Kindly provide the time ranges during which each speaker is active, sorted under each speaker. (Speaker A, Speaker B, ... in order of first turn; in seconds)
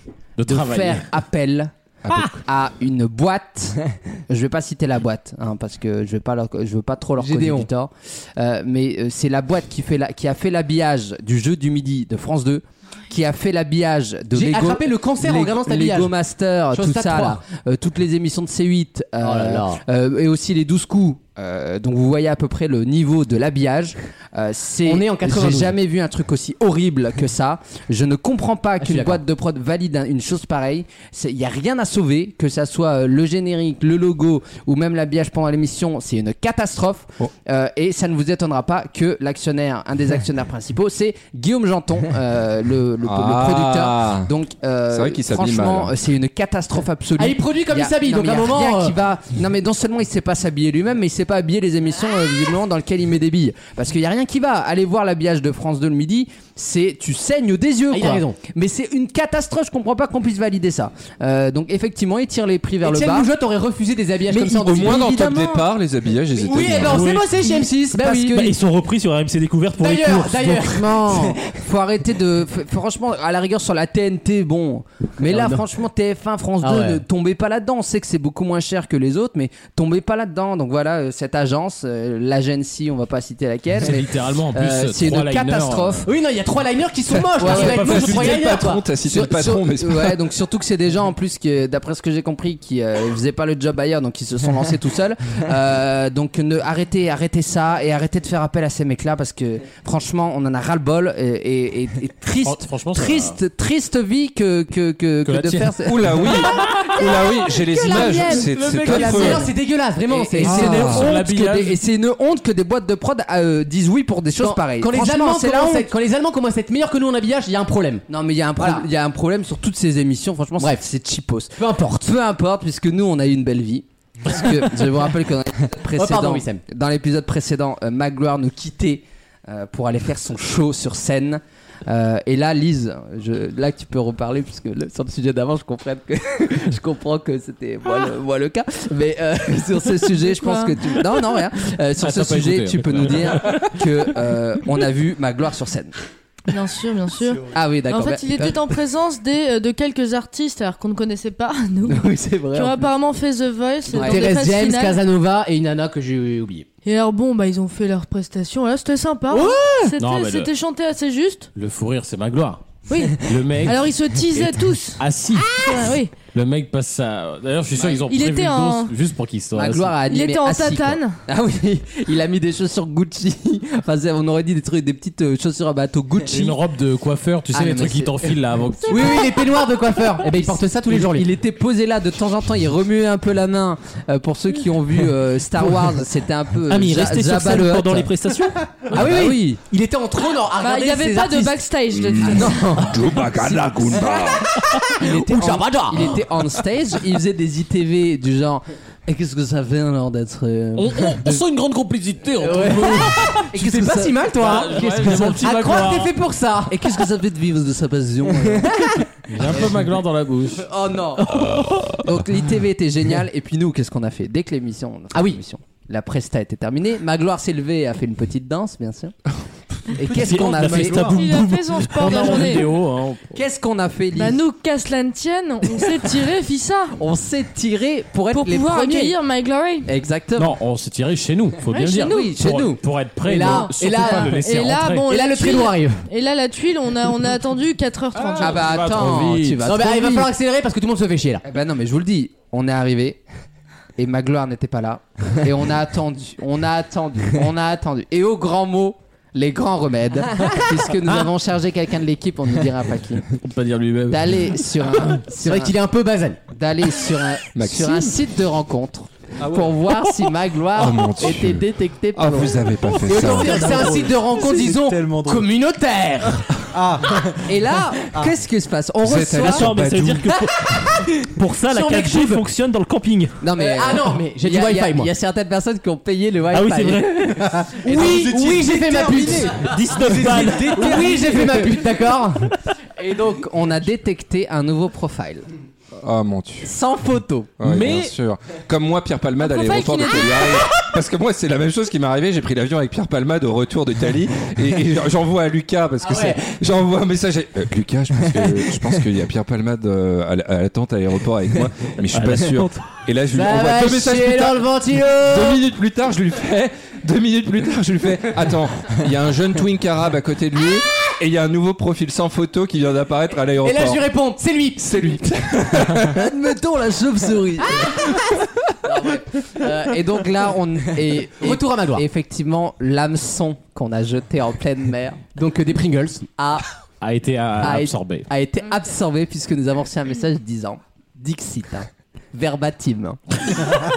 Speaker A: 0.4-1.1, 83.8-86.0, 87.4-88.5, 102.4-103.4, 105.2-107.0, 107.9-109.3, 110.4-111.8, 142.0-143.8, 160.0-160.5, 161.5-165.6, 166.3-169.9, 176.3-179.2, 200.8-203.3, 204.4-206.1, 209.3-210.6, 222.0-223.3, 230.4-235.1, 238.1-239.6, 253.4-254.4, 287.6-288.1, 327.0-328.3
Speaker B: 0.4-63.3, 64.6-65.7, 67.0-68.5, 70.6-86.1, 87.3-88.0, 89.0-106.3, 107.8-109.5, 110.1-115.9, 118.1-145.9, 147.5-148.6, 151.8-152.9, 153.9-154.3, 169.6-176.6, 177.5-178.3, 180.4-188.1, 188.9-189.6, 192.2-194.1, 195.0-201.4, 202.4-205.7, 206.7-209.7, 210.5-211.4, 212.0-219.1, 219.9-221.2, 223.3-224.4, 227.0-229.1, 229.8-230.6, 231.9-232.8, 238.4-240.3, 241.4-243.2, 243.9-253.2, 254.1-255.7, 256.5-263.8, 267.4-269.8, 273.4-277.4, 280.7-281.7, 283.0-285.5, 286.6-287.5, 315.9-318.1, 318.9-325.2, 328.6-333.8
Speaker C: 2.0-2.4, 43.0-44.3, 44.9-45.9, 64.3-67.1, 87.5-90.1, 105.8-109.5, 110.5-111.1, 191.9-194.5, 257.5-258.1, 260.8-263.8, 269.0-270.2, 286.0-286.7, 287.6-314.0, 314.8-316.2
Speaker D: 7.2-7.7, 14.3-16.1, 16.7-17.4, 19.2-19.8, 24.9-25.7, 28.8-29.2, 47.2-48.9, 57.9-58.4, 62.8-65.4, 66.4-68.4, 69.8-71.4, 75.2-75.6, 76.6-77.0, 86.0-88.8, 108.9-110.9, 114.4-118.0, 118.6-118.8, 121.6-122.1, 125.9-126.6, 153.9-156.7, 159.3-159.9, 178.9-181.2, 188.9-191.5, 194.9-196.1, 202.4-206.9, 208.6-209.1, 215.1-215.4, 233.2-234.4, 235.1-236.0, 239.6-241.4, 255.4-256.4, 263.0-266.6, 270.3-272.4, 273.6-275.1, 277.8-279.7, 280.2-282.6, 296.0-296.6, 303.3-305.6, 313.6-315.2, 317.7-318.3, 318.8-319.9, 321.4-322.0, 325.3-326.6, 327.6-328.7
Speaker E: 68.2-70.9, 186.7-188.9, 220.2-222.6, 269.4-273.4, 276.5-277.4, 279.6-281.0, 302.3-302.7
Speaker F: 107.8-108.4, 140.4-140.9, 146.5-155.0, 156.8-161.5, 162.9-165.0, 165.6-166.1, 168.0-168.9, 170.0-171.2, 190.6-192.9, 221.0-222.7, 224.1-227.0, 228.3-229.9, 231.7-232.3, 233.4-238.6, 289.4-290.7
Speaker G: 219.8-221.2, 259.4-259.9, 263.2-265.5, 266.6-267.4, 277.4-281.7